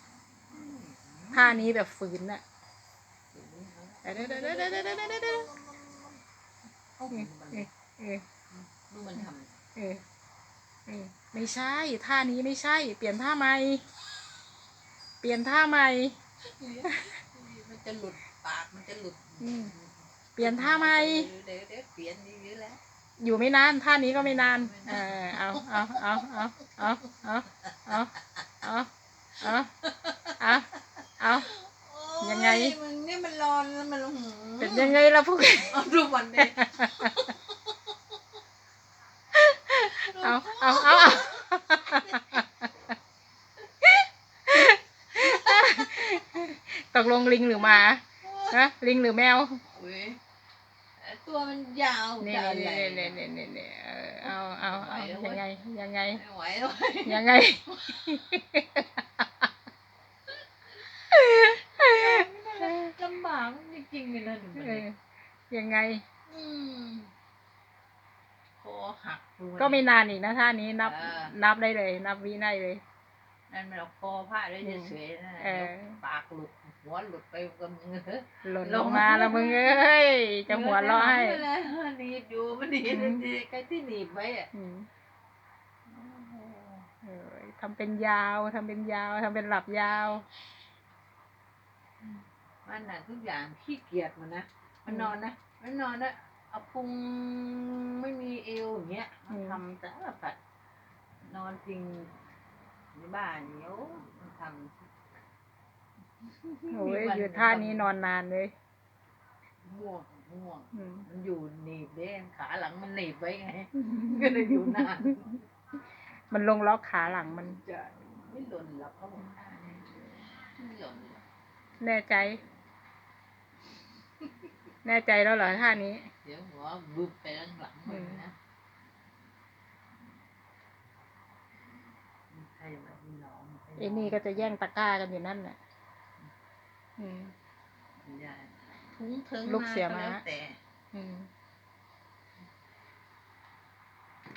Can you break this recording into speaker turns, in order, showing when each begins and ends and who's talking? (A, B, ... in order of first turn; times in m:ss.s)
0:00.5-0:01.7 A
0:01.3-0:02.4 B
0:03.3-0:06.2 A
0:04.0-0:05.5 B
0:07.0-0:07.7 A
0:07.1-0:08.2 B
0:08.5-0:09.6 A
0:09.2-0:10.0 B
0:10.9-0:13.8 B
0:15.2-0:16.2 B
0:16.5-0:22.8 A
0:16.8-0:17.1 B
0:19.4-0:19.7 B
0:20.4-0:21.3 B
0:23.2-0:28.1 B
0:24.1-0:26.6 A
0:27.7-0:28.1 A
0:28.6-0:28.9 B
0:29.4-0:29.7 B
0:29.9-0:35.0 A
0:30.4-0:30.7 B
0:31.2-0:31.5 B
0:32.2-0:32.8 B
0:34.6-0:35.8 B
0:35.6-0:37.7 A
0:36.4-0:37.2 B
0:39.3-0:42.4 B
0:39.8-0:42.4 A
0:44.5-0:49.6 B
0:45.2-0:46.1 A
0:47.6-0:48.6 A
0:49.6-0:50.2 A
0:51.0-0:53.3 A
0:52.2-0:56.2 B
0:54.2-0:55.5 A
0:56.1-0:58.0 A
0:57.0-0:58.8 B
1:01.1-1:02.9 B
1:01.3-1:04.8 A
1:04.6-1:05.0 B
1:05.5-1:06.0 B
1:06.3-1:07.1 A
1:08.6-1:09.9 A
1:09.6-1:12.8 B
1:10.8-1:11.3 A
1:13.5-1:19.8 A
1:14.6-1:16.0 B
1:18.4-1:21.4 B
1:20.5-1:24.5 A
1:22.9-1:23.2 B
1:24.5-1:24.9 B
1:25.9-1:26.9 A
1:27.0-1:30.2 B
1:32.6-1:40.4 A
1:34.9-1:35.1 B
1:39.3-1:39.6 B
1:41.2-1:42.1 A
1:42.9-1:44.9 A
1:46.2-1:47.9 A
1:46.7-1:48.5 B
1:49.6-1:55.4 A
1:50.7-1:51.0 B
1:53.8-1:55.1 B
1:56.3-1:57.6 B
1:57.1-2:01.2 A
2:01.8-2:02.4 B
2:04.8-2:06.1 B
2:06.2-2:08.3 A
2:07.9-2:08.2 B
2:12.3-2:14.6 A
2:13.8-2:15.6 B
2:17.0-2:17.3 B
2:18.0-2:20.6 A
2:19.4-2:20.2 B
2:20.9-2:21.3 B